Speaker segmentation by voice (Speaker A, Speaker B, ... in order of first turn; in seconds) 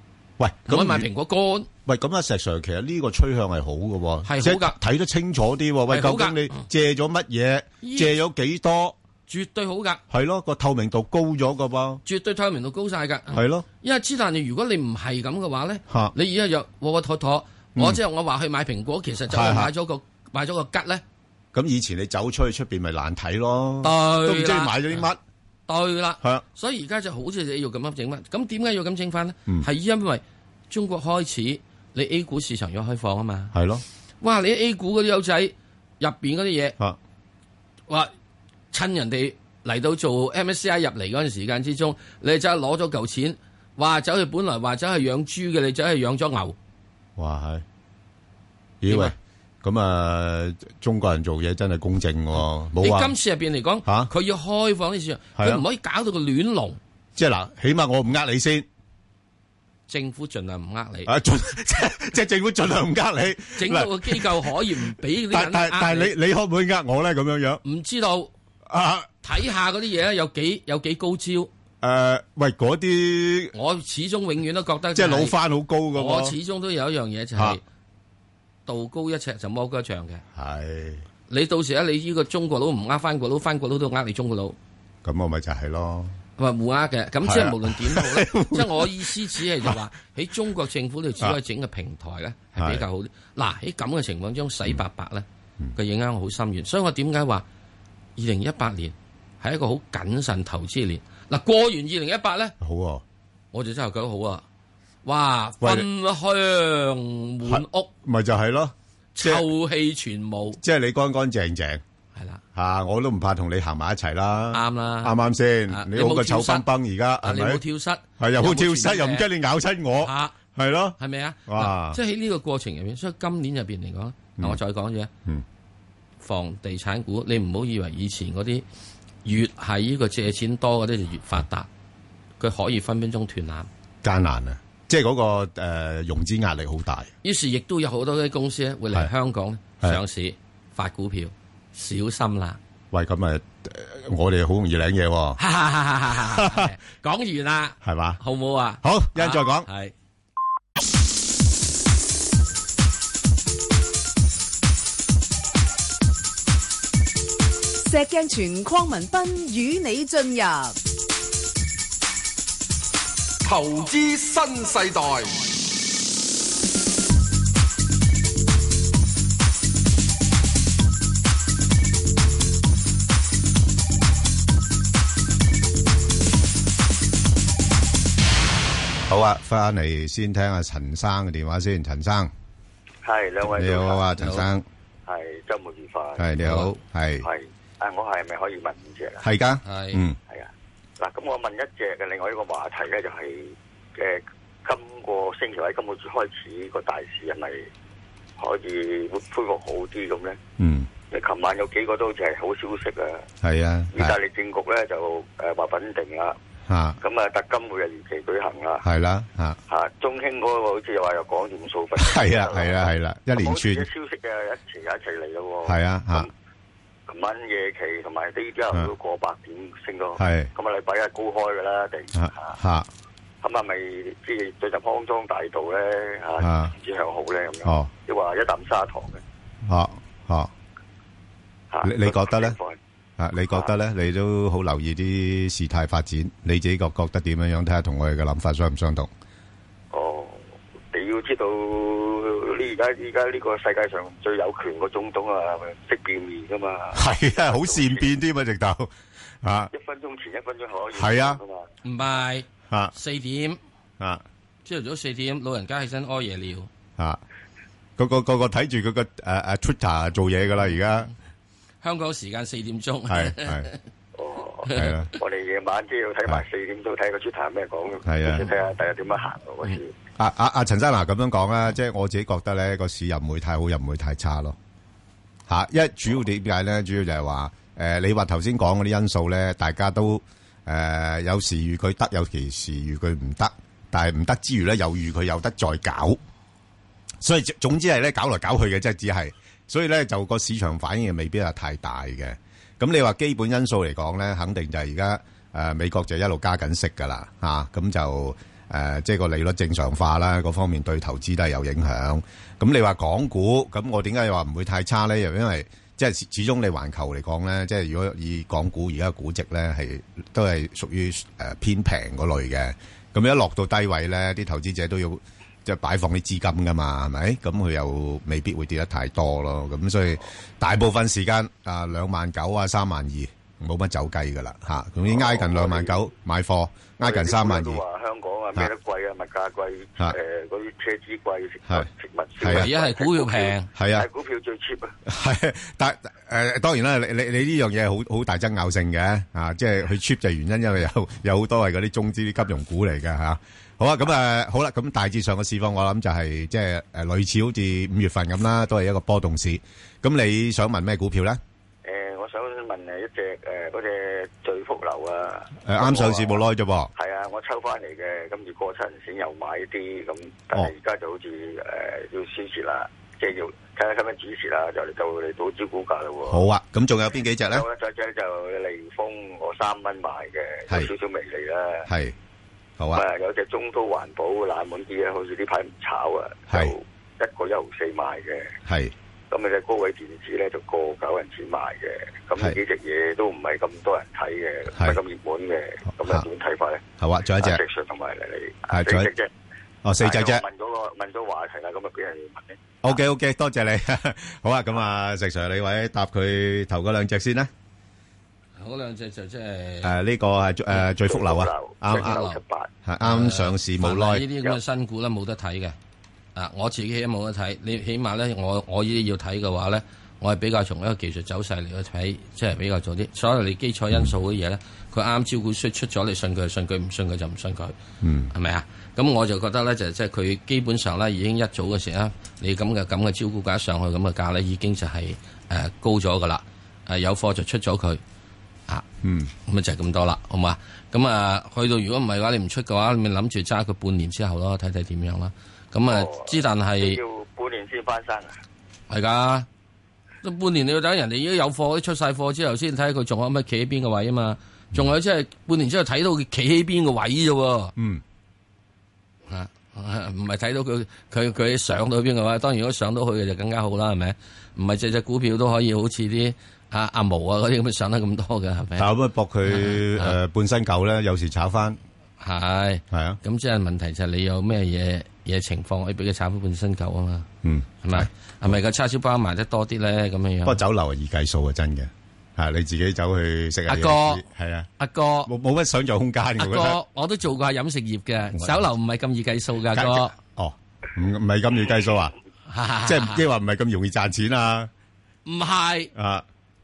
Speaker A: 0.4-1.1, 1.9-9.0, 10.1-12.0, 13.3-13.7, 15.9-16.1, 19.3-19.7, 21.5-25.2, 33.5-33.8, 47.2-47.6, 48.8-53.1, 53.8-54.1, 55.4-55.6, 57.1-58.7, 61.0-67.6, 68.7-69.2, 71.8-73.5, 74.9-76.3, 80.3-81.0, 85.0-86.2, 87.2-89.7, 92.6-92.8, 102.6-103.0, 105.6-105.8, 107.4-109.5, 110.6-111.8, 112.5-117.6, 118.2-122.0, 134.0-137.1, 142.9-145.4, 146.3-146.7, 147.8-148.2, 148.8-149.7, 179.1-182.3, 183.4-184.7, 186.2-187.3, 189.2-190.2, 200.6-200.9, 203.4-204.2, 206.7-207.0, 208.8-209.6, 212.0-213.8, 215.6-216.3, 220.2-220.5, 222.1-222.9, 226.4-226.7, 227.6-227.9, 229.6-230.5, 231.8-232.6, 233.2-239.1, 246.9-248.9, 249.4-249.7, 250.9-251.4, 258.0-261.1, 263.1-263.7, 264.7-265.1, 268.1-268.5, 270.2-274.6, 275.5-286.2, 287.2-327.8, 332.4-332.7, 333.7-334.1, 335.1-351.4, 355.6-356.9, 366.3-367.6, 371.9-372.1, 372.8-373.0, 376.5-376.7, 378.6-378.9, 387.0-387.6, 388.7-389.1, 389.8-390.4, 392.8-397.5, 399.8-402.2, 402.8-404.3, 418.0-418.3, 429.0-429.3, 447.8-448.0, 458.8-461.8, 462.9-463.2, 467.4-468.1, 470.4-474.7, 475.2-476.8, 478.3-478.6, 479.7-482.1, 482.8-484.7, 485.9-486.2
Speaker B: 0.7-1.7, 4.2-4.8, 5.9-6.7, 7.8-8.1, 9.3-10.0, 12.0-21.0, 23.8-25.0, 25.7-33.5, 34.2-36.8, 38.7-46.5, 48.9-49.1, 52.8-56.8, 59.9-61.1, 63.5-66.1, 67.6-68.3, 69.2-71.5, 73.5-75.3, 75.9-77.6, 78.7-80.2, 81.3-84.6, 86.4-97.5, 98.2-102.5, 103.5-104.4, 105.0-107.9, 109.1-110.6, 112.1-112.4, 114.5-116.7, 117.2-119.3, 120.0-120.3, 121.0-125.1, 126.2-128.6, 129.2-131.7, 132.4-133.7, 137.2-142.6, 145.4-149.9, 184.2-184.4, 186.4-186.7, 189.6-190.0, 251.8-253.6, 254.6-256.7, 261.8-263.8, 332.4-333.7, 398.6-399.9, 401.9-402.4, 403.0-405.8, 406.3-417.8, 418.3-428.0, 429.4-437.0, 438.9-439.5, 440.2-447.7, 449.3-458.9, 459.5-460.2, 462.2-467.3, 467.8-470.6, 473.7-474.2, 474.8-475.3, 476.4-480.1, 482.5-483.2, 485.2-485.9
Speaker C: 157.9-160.8
Speaker D: 163.4-165.5
Speaker E: 183.0-184.1, 185.1-186.3, 187.2-189.2, 190.3-197.7, 198.4-200.4, 201.1-203.2, 203.9-206.3, 207.0-208.8, 209.7-216.3, 217.1-222.5, 223.4-229.2, 231.7-232.8, 239.9-248.1, 249.7-251.7, 264.1-269.9, 325.1-325.9, 327.0-334.9, 351.8-356.4, 356.9-366.4, 367.5-371.9, 372.9-378.5, 379.3-386.8, 387.4-389.3, 390.0-393.0, 401.0-402.7, 435.9-438.4